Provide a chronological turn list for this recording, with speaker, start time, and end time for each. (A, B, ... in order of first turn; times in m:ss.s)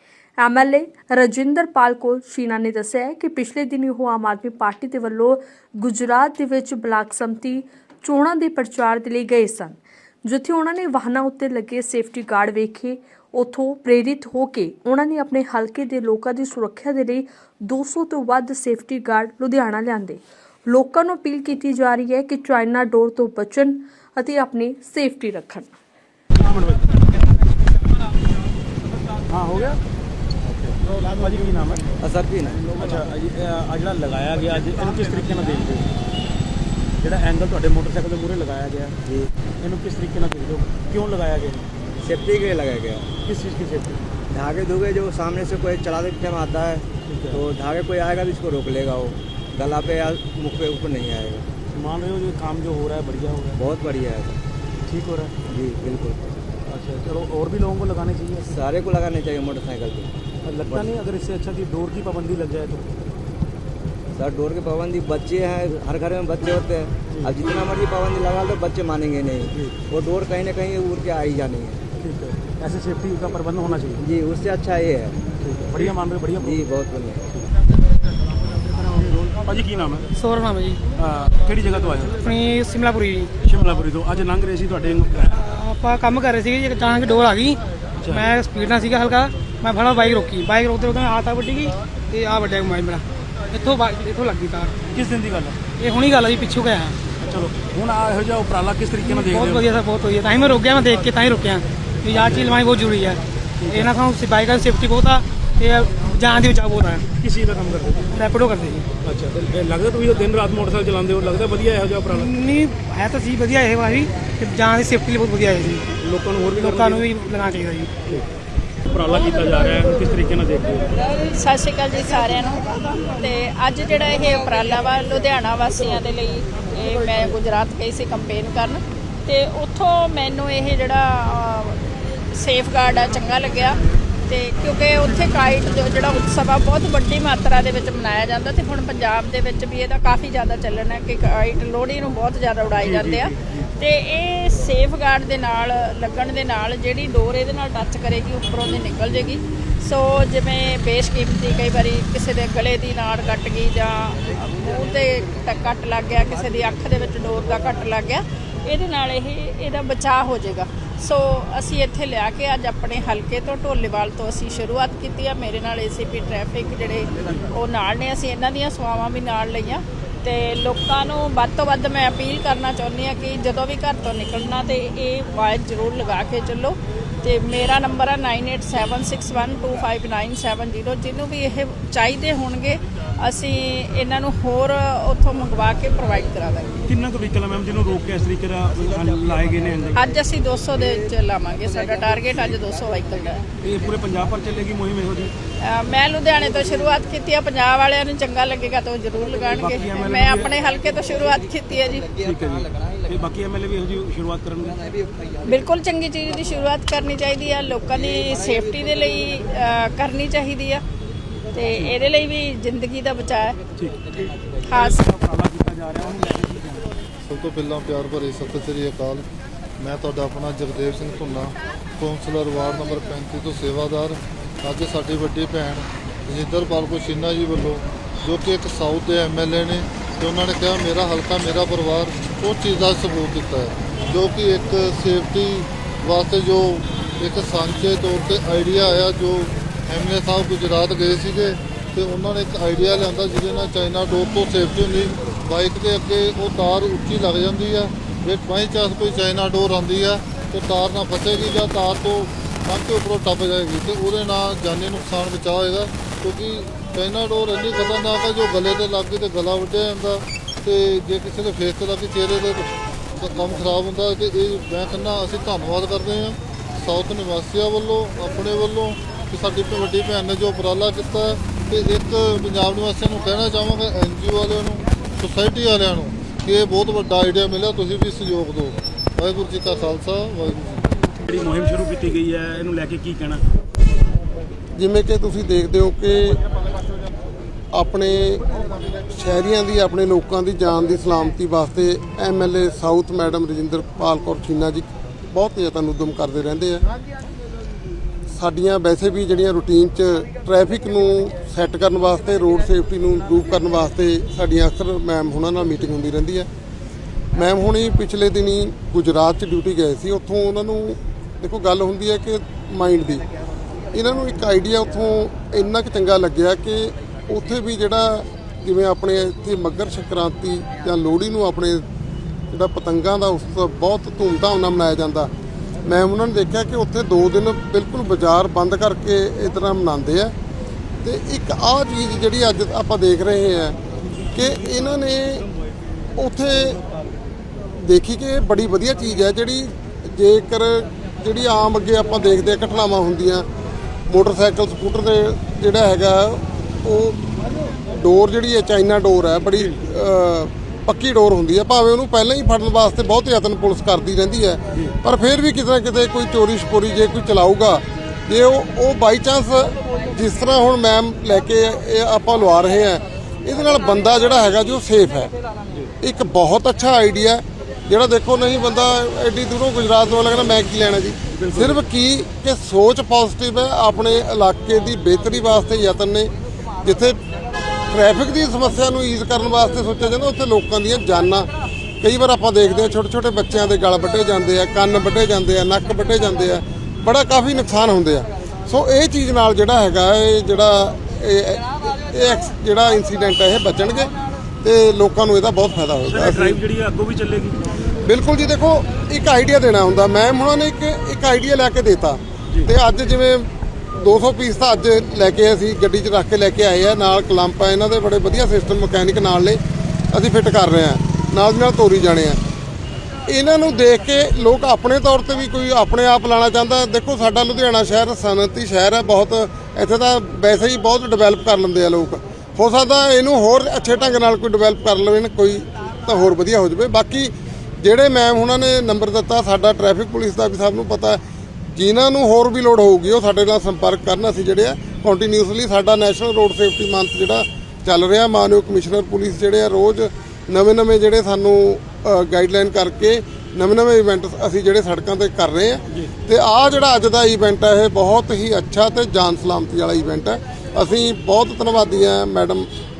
0:00.4-0:25.8 A
0:26.4-0:26.9 B
0:29.3-0:29.8 B
0:31.0-0:31.8 B
0:32.0-0:32.6 C
0:32.7-0:35.9 B
0:37.0-0:39.0 B
0:39.6-0:41.7 B
0:42.0-0:43.1 C
0:43.2-0:44.0 B
0:44.3-0:51.5 C
0:47.1-0:47.4 B
0:51.8-0:53.6 B
0:53.6-0:54.4 C
0:54.9-0:55.3 B
0:55.5-0:56.3 C
0:56.7-0:58.5 B
0:58.5-1:00.1 C
1:00.4-1:03.1 B
1:00.6-1:00.9 C
1:04.2-1:11.8 C
1:12.0-1:14.0 B
1:14.0-1:15.2 C
1:15.4-1:16.6 B
1:16.4-1:17.2 C
1:18.9-1:19.2 D
1:19.1-1:20.1 B
1:20.2-1:20.8 D
1:21.0-1:22.2 B
1:22.2-1:23.3 D
1:23.4-1:25.4 B
1:25.4-1:34.8 D
1:34.9-1:35.6 B
1:35.8-1:37.0 D
1:37.2-1:39.7 B
1:39.0-1:47.1 D
1:42.1-1:42.6 B
1:43.6-1:43.9 B
1:47.2-1:48.1 B
1:48.2-1:48.9 D
1:49.0-1:52.3 B
1:52.2-1:55.9 D
1:56.0-1:57.1 B
1:56.6-1:57.9 D
1:58.9-2:00.9 B
2:01.1-3:06.8 E
2:22.9-2:23.3 B
3:06.9-3:10.0 B
3:10.0-3:13.4 E
3:13.6-3:15.3 B
3:15.6-3:22.1 E
3:19.5-3:20.5 B
3:22.2-3:24.8 B
3:25.4-3:30.8 E
3:31.5-3:33.6 E
3:33.8-3:36.9 B
3:34.7-3:35.0 E
3:37.3-3:39.2 F
3:39.8-4:40.9 F
4:41.3-4:43.4 B
4:44.8-4:46.4 G
4:47.7-4:48.5 G
4:49.1-4:56.8 G
4:58.3-5:06.5 G
5:07.3-5:13.2 G
5:13.9-5:21.8 G
5:22.5-5:25.3 G
5:25.8-5:30.3 G
5:31.0-5:33.8 G
5:34.3-5:35.5 G
5:36.2-5:36.8 G
5:37.8-5:43.5 G
5:44.1-6:05.3 G
6:06.0-6:16.3 G
6:11.4-6:11.8 B
6:16.8-6:17.2 G
6:17.9-6:21.5 G
6:22.0-6:36.6 G
6:36.1-6:37.8 B
6:38.0-6:49.6 G
6:50.1-6:52.4 G
6:53.3-7:11.2 G
7:11.7-7:32.7 G